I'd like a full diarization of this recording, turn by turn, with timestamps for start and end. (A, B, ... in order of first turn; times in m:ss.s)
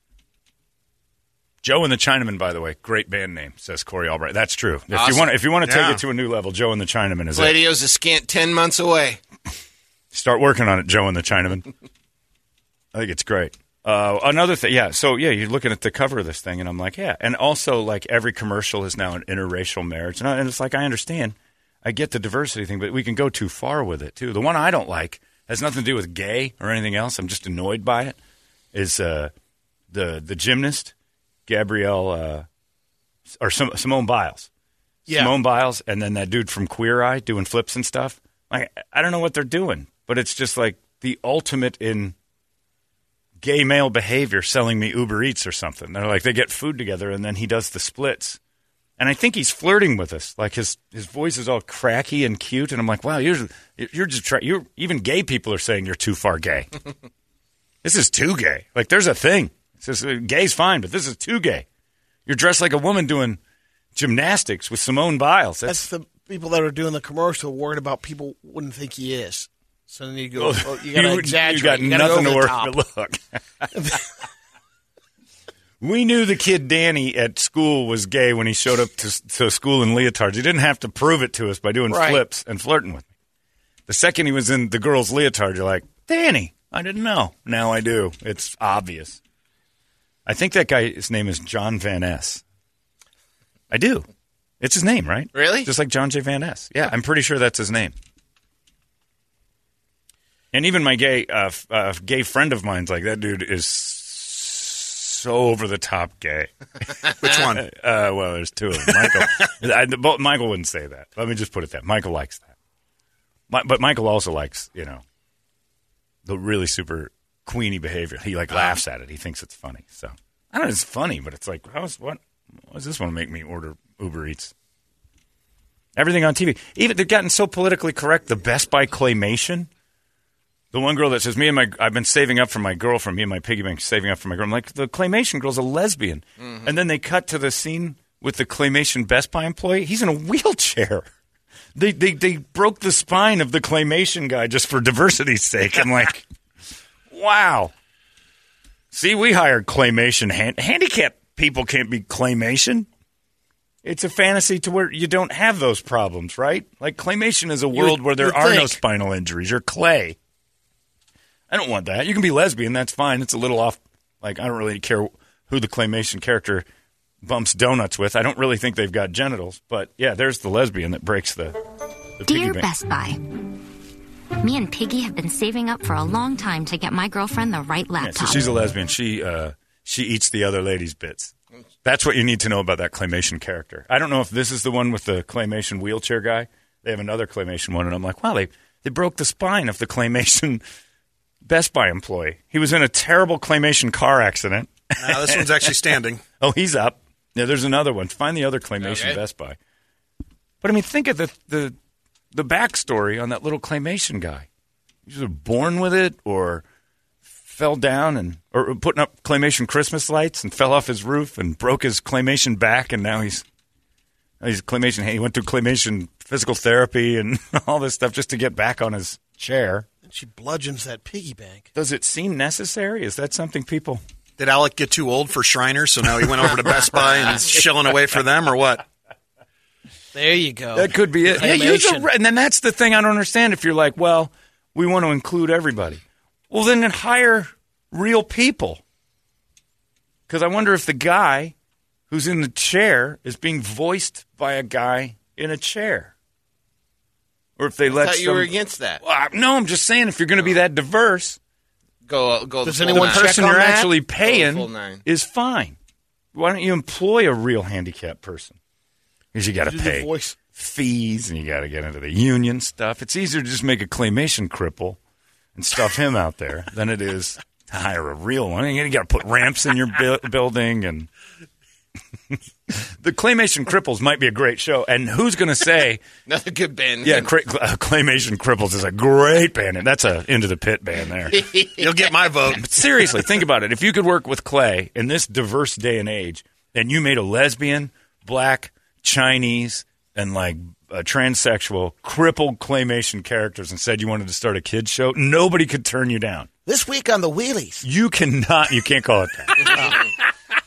0:01.6-0:07.6 A
0:04.9-0:05.3 B
0:05.6-0:06.0 C
0:07.3-0:09.2 B
0:10.1-0:11.7 A
0:12.9-0:28.2 A
0:28.7-0:29.3 A
0:29.9-0:30.9 A
0:31.5-0:32.4 A
0:33.4-0:34.5 A
0:35.1-0:35.4 D
0:35.1-0:42.2 A
0:43.4-0:48.4 A
0:49.0-0:56.7 A
0:57.8-1:01.6 A
1:02.3-1:03.4 A
1:03.9-1:05.8 A
1:05.7-1:12.7 D
1:10.4-1:13.7 A
1:15.8-1:23.1 A
1:21.9-1:22.2 D
1:23.9-1:29.2 A
1:30.2-1:32.4 A
1:33.7-1:34.1 A
1:34.6-1:37.9 A
1:35.3-1:35.7 B
1:40.5-1:46.5 A
1:47.1-1:52.5 A
1:47.2-1:47.7 C
1:53.5-1:55.0 A
1:56.2-2:04.5 A
2:06.0-2:09.7 A
2:10.7-2:21.1 A
2:16.4-2:16.7 B
2:21.7-2:26.2 A
2:27.1-2:27.7 A
2:28.9-2:32.9 A
2:33.8-2:40.2 A
2:37.7-2:38.8 D
2:41.5-2:46.6 A
2:47.2-2:51.5 A
2:52.2-2:52.6 A
2:52.2-2:53.2 E
2:54.4-2:58.4 E
2:58.0-3:01.3 A
3:01.8-3:10.6 A
3:11.4-3:15.8 A
3:15.0-3:16.2 C
3:16.4-3:19.6 A
3:18.8-3:19.2 B
3:20.6-3:21.8 A
3:22.3-3:24.5 A
3:25.0-3:26.6 A
3:27.5-3:33.4 A
3:34.4-3:39.9 A
3:40.0-3:41.7 D
3:41.8-3:44.0 A
3:44.4-3:48.8 C
3:50.1-3:52.1 D
3:50.7-3:58.8 A
4:00.3-4:01.5 A
4:02.1-4:06.1 A
4:07.6-4:11.4 A
4:07.9-4:09.0 B
4:12.1-4:13.4 B
4:12.6-4:13.9 D
4:12.9-4:15.8 A
4:14.2-4:15.0 B
4:16.3-4:18.6 A
4:19.3-4:25.0 A
4:19.6-4:20.4 D
4:25.6-4:31.1 A
4:32.3-4:36.0 A
4:36.3-4:37.3 B
4:37.0-4:41.5 A
4:41.4-4:41.8 B
4:41.8-4:42.8 C
4:42.5-4:56.5 A
4:56.6-4:57.8 D
4:57.8-5:00.0 A